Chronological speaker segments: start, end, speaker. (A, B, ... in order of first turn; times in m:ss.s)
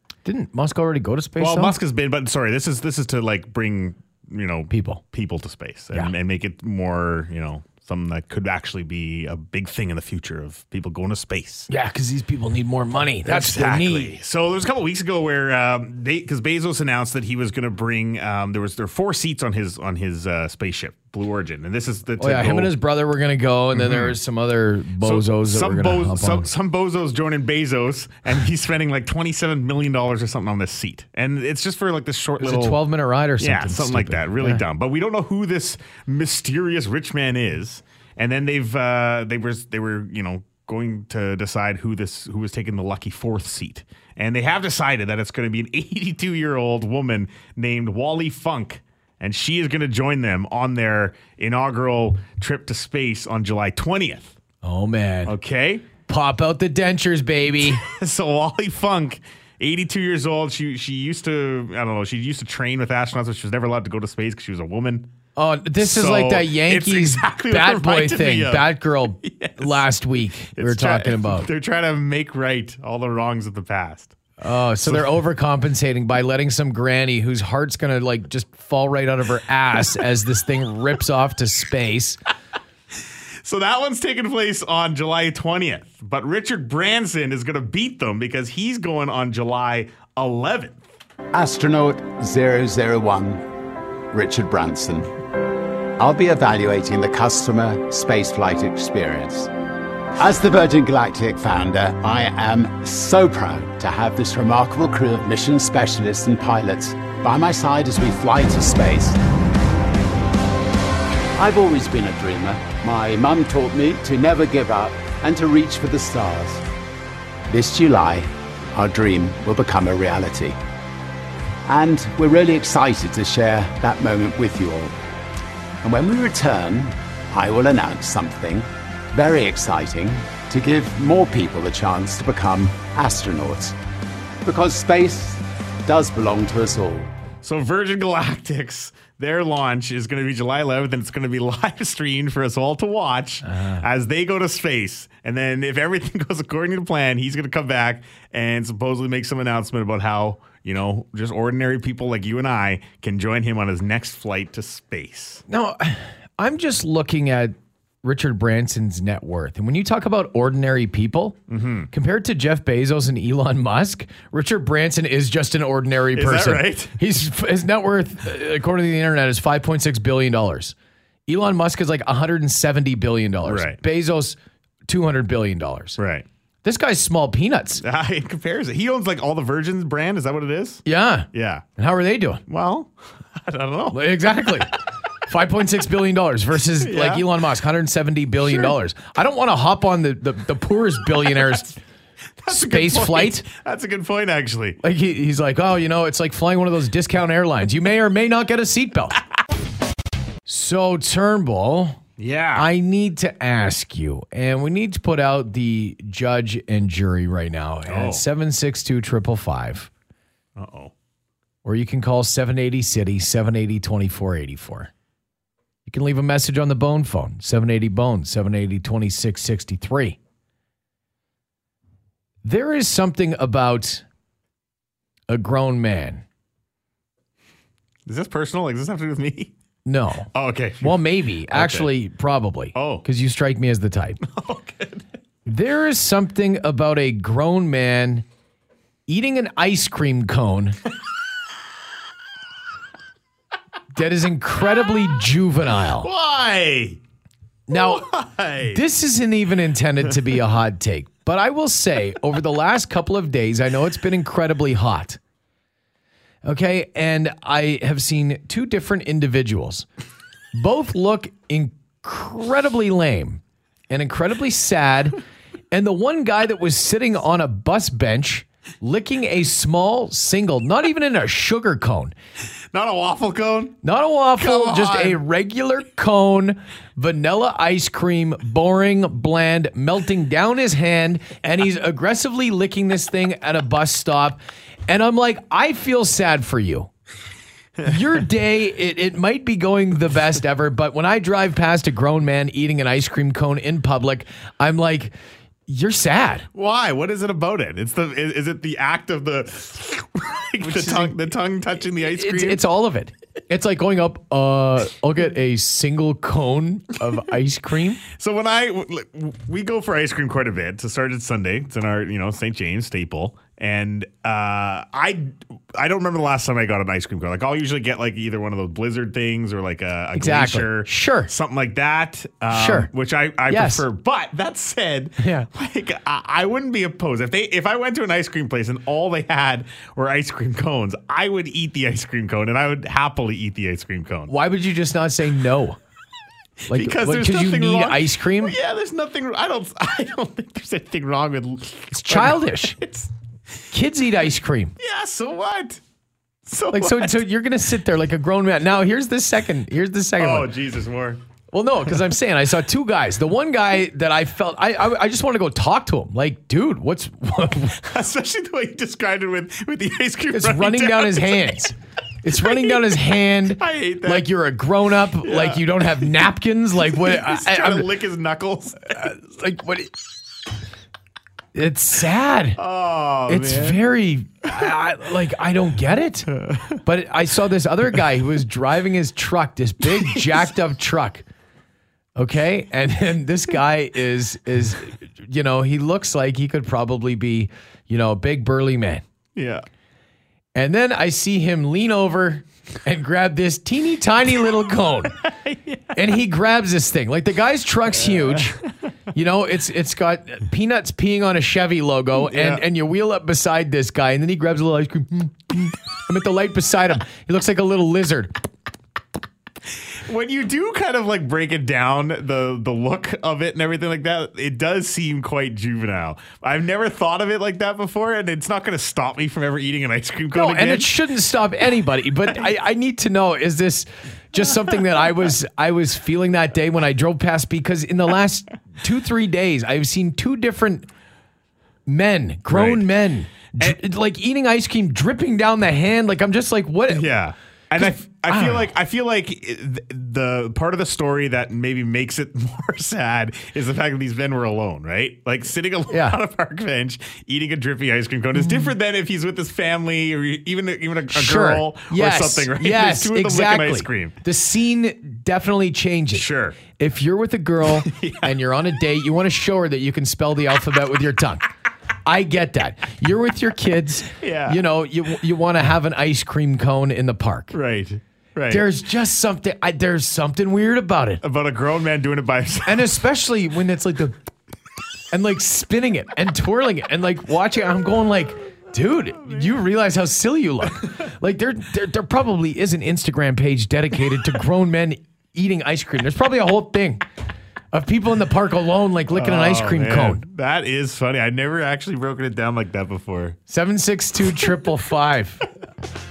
0:00.2-0:01.8 A
0:01.4-0:11.7 B
0:04.7-0:05.0 A
0:11.7-0:14.2 A
0:13.2-0:22.7 B
0:22.2-0:26.5 A
0:23.7-0:24.2 B
0:25.0-0:32.8 B
0:32.4-0:34.6 A
0:33.4-0:54.4 B
0:54.6-0:55.4 A
0:55.2-0:55.9 B
0:56.1-0:57.8 A
0:57.8-1:05.1 B
1:05.4-1:11.5 A
1:05.8-1:09.9 B
1:10.5-1:14.2 B
1:14.4-1:22.2 A
1:14.8-1:15.2 B
1:23.4-1:30.8 B
1:31.3-1:33.4 C
1:34.1-1:35.1 C
1:36.0-1:39.5 C
1:40.2-1:49.2 C
1:51.4-1:56.6 C
1:57.5-2:00.6 C
2:01.7-2:05.0 C
2:05.8-2:13.8 C
2:14.4-2:17.1 C
2:17.4-2:35.4 B
2:23.4-2:23.8 A
2:35.5-2:41.4 A
2:41.5-2:41.9 B
2:41.9-2:50.8 A
2:46.1-2:47.0 B
2:51.3-2:54.4 A
2:53.4-2:53.8 B
2:54.9-2:56.0 A
2:56.0-2:56.3 B
2:56.6-2:57.8 A
2:57.8-3:01.6 B
3:00.9-3:02.4 A
3:02.5-3:04.6 B
3:03.9-3:04.7 A
3:05.3-3:11.8 A
3:06.8-3:07.3 B
3:08.4-3:08.7 B
3:11.3-3:11.6 B
3:12.4-3:14.8 B
3:12.5-3:13.4 A
3:14.8-3:19.2 A
3:20.5-3:22.0 A
3:22.2-3:22.7 B
3:22.6-3:29.9 A
3:27.9-3:28.2 B
3:30.6-3:30.9 B
3:31.6-3:34.9 A
3:35.9-3:40.2 A
3:42.4-3:44.0 A
3:45.3-3:46.2 A
3:48.1-3:49.5 B
3:49.8-3:50.3 A
3:50.3-3:51.9 B
3:50.8-3:54.2 A
3:52.8-3:53.0 B
3:54.2-3:55.0 B
3:55.5-3:58.2 A
3:59.1-4:00.8 A
4:03.9-4:06.1 A
4:06.0-4:07.0 B
4:07.7-4:08.1 A
4:07.7-4:08.8 B
4:08.6-4:15.2 A
4:16.4-4:19.9 A
4:20.5-4:25.2 A
4:25.7-4:32.1 A
4:32.7-4:33.8 B
4:33.8-4:46.9 A
4:34.4-4:35.2 B
4:47.8-4:55.1 A
4:55.7-4:56.5 A
4:56.5-5:02.6 B
5:00.6-5:01.3 A
5:02.0-5:08.0 A
5:08.1-5:34.3 B
5:20.2-5:21.3 A
5:22.5-5:22.9 A
5:23.5-5:23.8 A
5:25.2-5:25.5 A
5:34.3-5:35.8 A
5:36.7-5:43.1 B
5:36.7-5:38.6 A
5:41.9-5:42.8 A
5:43.7-5:44.8 A
5:44.8-5:45.8 B
5:46.4-5:47.2 B
5:46.7-5:50.5 A
5:50.2-5:51.2 B
5:51.5-5:57.8 A
5:57.8-6:01.6 B
6:00.3-6:07.9 A
6:02.3-6:03.0 B
6:03.5-6:04.3 B
6:05.2-6:06.3 B
6:06.8-6:09.1 B
6:08.9-6:09.9 A
6:11.6-6:12.6 A
6:12.6-6:13.8 B
6:13.3-6:16.3 A
6:16.3-6:16.8 B
6:16.8-6:21.2 A
6:19.8-6:20.4 B
6:22.2-6:29.0 A
6:29.4-6:29.6 B
6:30.6-6:35.2 A
6:35.2-6:36.0 B
6:36.0-6:38.6 A
6:37.9-6:38.6 B
6:39.1-6:48.3 A
6:42.2-6:42.7 B
6:49.8-7:00.9 B
7:00.3-7:10.9 A
7:11.9-7:17.1 A
7:12.5-7:12.8 B
7:16.9-7:34.2 B
7:17.8-7:18.7 A
7:25.9-7:26.2 A
7:28.4-7:28.7 A
7:31.1-7:41.5 A
7:36.1-7:36.6 B
7:37.8-7:38.3 B
7:42.1-7:47.6 A
7:44.2-7:44.6 B
7:47.5-7:48.6 B
7:48.5-7:51.2 A
7:51.2-7:52.9 B
7:52.7-7:54.2 A
7:55.1-8:07.0 A
7:59.2-7:59.6 B
8:07.7-8:10.2 A
8:09.1-8:13.4 B
8:13.5-8:15.4 A